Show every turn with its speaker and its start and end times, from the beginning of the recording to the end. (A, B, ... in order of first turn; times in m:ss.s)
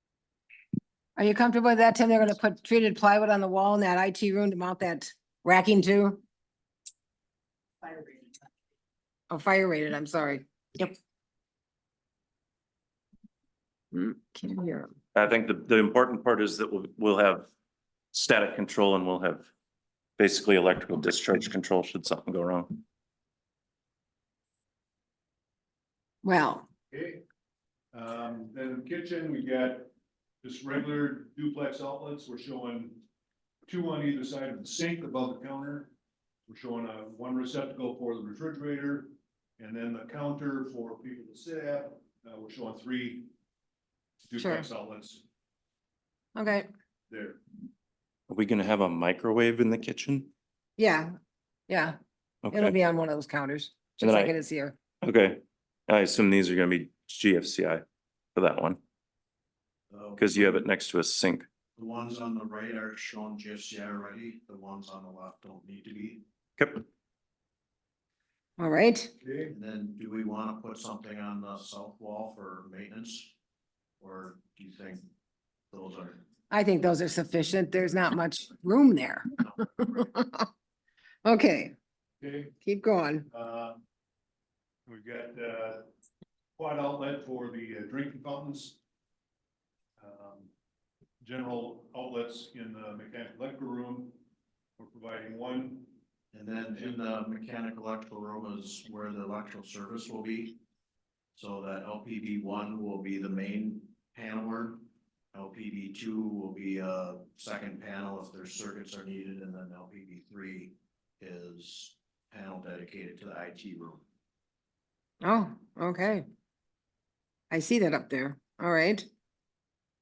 0:01.2-0:06.2 A
0:09.3-0:10.9 A
0:13.9-0:14.9 A
0:15.2-0:17.5 B
0:18.1-0:19.5 B
0:20.2-0:22.8 B
0:26.2-0:26.6 A
0:26.9-0:27.2 C
0:27.9-0:29.9 C
0:30.4-0:33.0 C
0:33.7-0:35.9 C
0:36.5-0:43.3 C
0:44.2-0:45.2 C
0:44.4-0:44.7 A
0:46.4-0:46.7 A
0:47.1-0:47.4 C
0:48.3-0:50.3 B
0:50.8-0:51.1 A
0:51.7-0:52.0 A
0:52.4-0:52.8 B
0:52.5-0:54.8 A
0:54.0-0:54.3 B
0:55.0-0:57.8 B
0:58.4-0:58.8 B
0:59.9-1:00.5 D
1:00.2-1:01.5 B
1:01.8-1:06.2 D
1:06.6-1:06.8 B
1:08.6-1:09.1 A
1:09.2-1:09.5 C
1:09.5-1:13.3 D
1:14.0-1:15.1 D
1:15.7-1:16.2 D
1:16.5-1:20.5 A
1:21.2-1:21.8 A
1:22.2-1:22.5 C
1:22.6-1:23.3 A
1:23.3-1:23.8 C
1:24.9-1:25.9 C
1:26.6-1:28.8 C
1:30.0-1:30.5 C
1:31.2-1:34.2 C
1:34.8-1:35.9 C
1:36.3-1:40.6 D
1:36.7-1:37.0 C
1:41.4-1:54.0 D
1:55.2-1:56.2 A
1:57.5-1:59.1 A